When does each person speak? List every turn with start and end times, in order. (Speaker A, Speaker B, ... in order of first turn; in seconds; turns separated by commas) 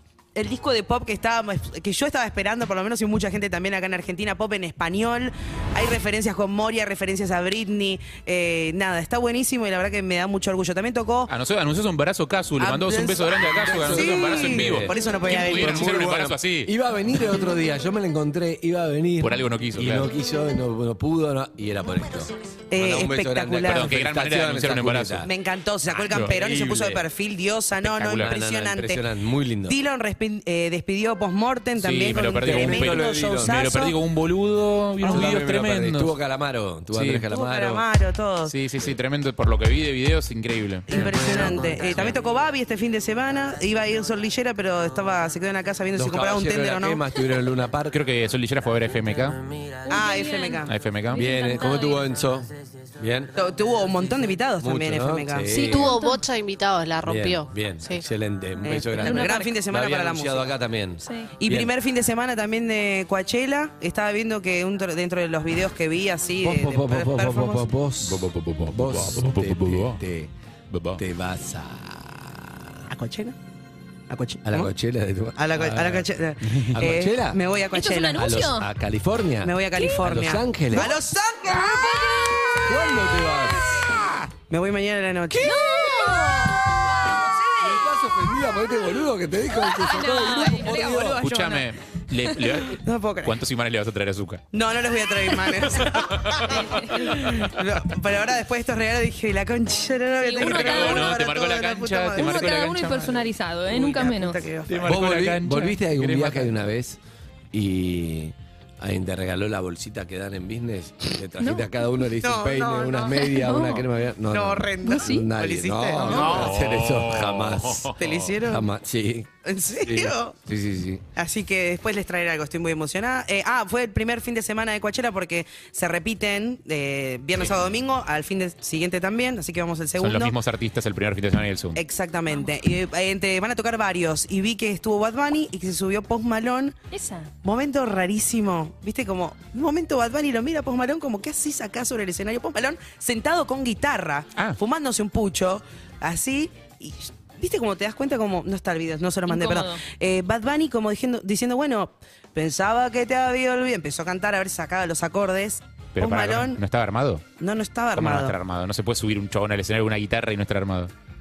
Speaker A: 0.3-11.3, Speaker B: 11.3-16.7, Speaker A: 12.6-15.9, Speaker C: 13.6-25.3, Speaker B: 19.2-20.1, Speaker A: 22.7-23.9, Speaker B: 23.6-25.3, Speaker A: 25.2-29.0, Speaker B: 25.9-26.4, Speaker C: 26.1-27.1, Speaker B: 27.8-28.4, Speaker C: 28.2-29.8, Speaker A: 29.7-33.9, Speaker B: 31.8-36.1, Speaker C: 32.4-33.6, Speaker A: 35.0-35.3, Speaker C: 35.0-37.8, Speaker B: 36.9-37.3, Speaker A: 37.3-38.5, Speaker B: 38.4-42.1, Speaker A: 40.9-47.0, Speaker C: 40.9-41.9, Speaker C: 45.9-48.0, Speaker B: 47.9-49.4, Speaker D: 49.8-52.1, Speaker A: 49.9-50.7, Speaker B: 50.7-51.2, Speaker C: 51.1-53.3, Speaker A: 53.4-55.6, Speaker C: 54.6-56.0, Speaker E: 55.5-58.0, Speaker D: 55.6-56.2, Speaker C: 57.0-61.7, Speaker A: 58.6-60.5, Speaker D: 59.0-59.5, Speaker D: 61.0-61.3, Speaker A: 61.4-67.7, Speaker C: 66.4-70.3, Speaker B: 68.0-70.0, Speaker B: 70.7-71.0, Speaker C: 71.0-72.9, Speaker A: 72.9-73.3, Speaker A: 74.1-74.7, Speaker C: 74.4-77.4, Speaker A: 75.4-78.2, Speaker D: 77.7-78.7, Speaker C: 78.1-81.0, Speaker A: 79.4-83.2, Speaker D: 81.8-83.3, Speaker C: 82.6-83.9, Speaker A: 83.7-85.6, Speaker C: 85.3-87.0, Speaker D: 85.4-86.6, Speaker A: 86.9-87.8, Speaker C: 87.6-91.2, Speaker D: 89.6-91.6, Speaker B: 91.2-94.4, Speaker A: 92.8-93.3, Speaker A: 94.5-102.7, Speaker B: 95.8-96.5, Speaker D: 96.5-97.2, Speaker D: 100.2-101.2, Speaker B: 100.4-103.1, Speaker D: 102.2-104.4, Speaker A: 103.7-104.8, Speaker B: 104.7-106.5, Speaker C: 104.8-107.0, Speaker C: 107.5-121.0, Speaker D: 111.4-111.8, Speaker A: 112.2-113.2, Speaker D: 113.1-113.8, Speaker A: 114.3-116.5, Speaker D: 114.8-115.3, Speaker D: 116.0-116.3, Speaker B: 116.1-118.3, Speaker A: 118.0-118.7, Speaker A: 119.4-120.3, Speaker A: 121.2-130.3, Speaker B: 127.3-127.7, Speaker B: 130.0-131.8, Speaker A: 131.8-136.7, Speaker D: 136.9-137.3, Speaker A: 137.4-156.6, Speaker D: 149.3-149.8, Speaker B: 155.9-157.2, Speaker A: 157.4-158.3, Speaker B: 157.9-160.9